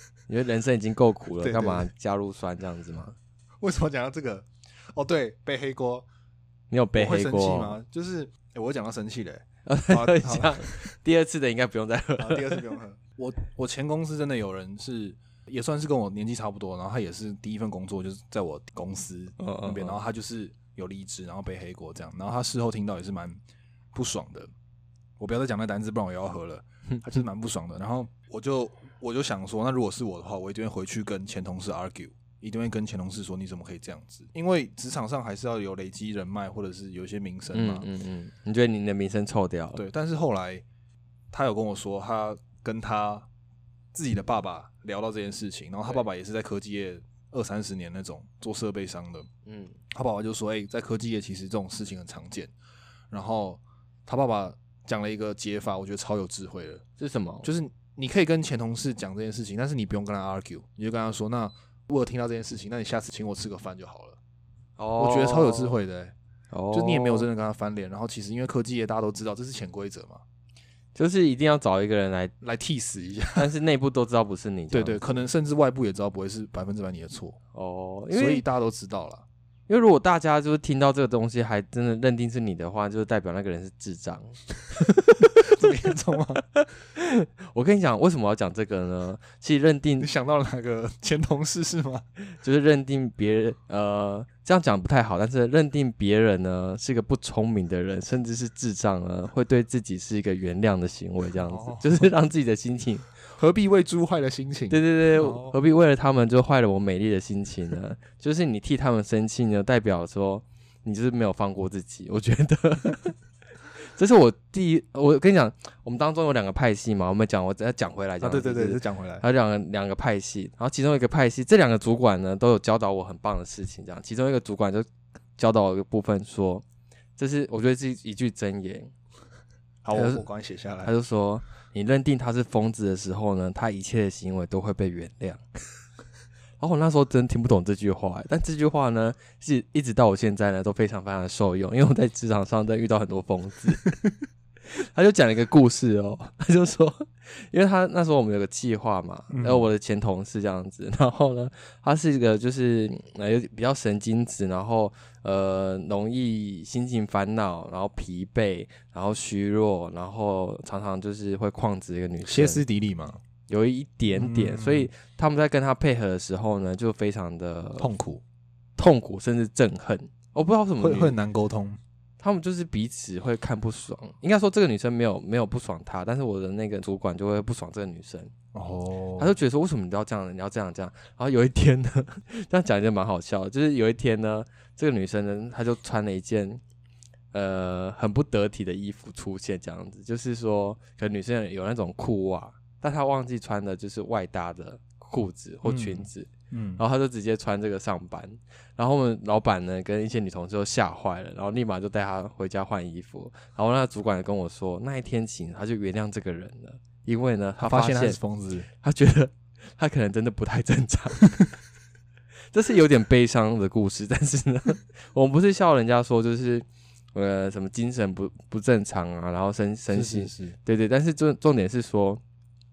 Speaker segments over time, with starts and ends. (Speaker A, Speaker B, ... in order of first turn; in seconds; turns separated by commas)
Speaker A: 0.3-3.1, Speaker B: 1.4-1.9, Speaker B: 3.6-6.0, Speaker A: 6.7-7.8, Speaker B: 6.9-10.9, Speaker A: 9.7-12.7, Speaker B: 12.2-23.4, Speaker A: 19.4-20.0, Speaker B: 23.9-24.5, Speaker B: 25.2-37.9, Speaker A: 37.5-39.8, Speaker B: 39.8-40.6, Speaker B: 41.3-43.3, Speaker B: 43.9-49.3, Speaker A: 49.5-49.7, Speaker B: 49.9-52.5, Speaker B: 53.1-56.8, Speaker A: 57.0-57.5, Speaker B: 57.4-64.2, Speaker A: 64.8-65.8, Speaker B: 65.0-66.1, Speaker A: 66.5-67.3, Speaker B: 66.7-70.2, Speaker A: 70.9-72.3, Speaker B: 72.4-73.5, Speaker A: 73.3-75.1, Speaker B: 74.7-77.4, Speaker A: 77.5-78.4, Speaker B: 78.1-79.2, Speaker A: 79.7-85.8, Speaker B: 85.3-86.4, Speaker A: 86.5-90.1, Speaker B: 90.0-92.0, Speaker A: 92.4-103.1, Speaker B: 101.4-102.1, Speaker B: 103.3-105.5, Speaker A: 104.7-113.1, Speaker A: 113.9-124.8, Speaker B: 118.2-119.2, Speaker A: 125.4-126.6, Speaker A: 127.2-128.9, Speaker B: 129.8-130.9, Speaker A: 129.9-130.2, Speaker A: 130.8-135.4, Speaker A: 136.6-143.9, Speaker A: 144.7-162.6, Speaker B: 149.3-149.7, Speaker B: 162.2-163.2, Speaker A: 163.5-167.9, Speaker B: 164.1-164.9, Speaker B: 167.8-168.2, Speaker A: 168.8-171.1, Speaker B: 170.8-171.8, Speaker A: 172.2-178.3, Speaker B: 178.5-179.3, Speaker A: 179.2-186.6, Speaker A: 187.3-208.2, Speaker B: 195.6-196.8, Speaker B: 207.6-208.7, Speaker A: 208.8-211.5, Speaker A: 212.5-222.2, Speaker B: 219.9-220.6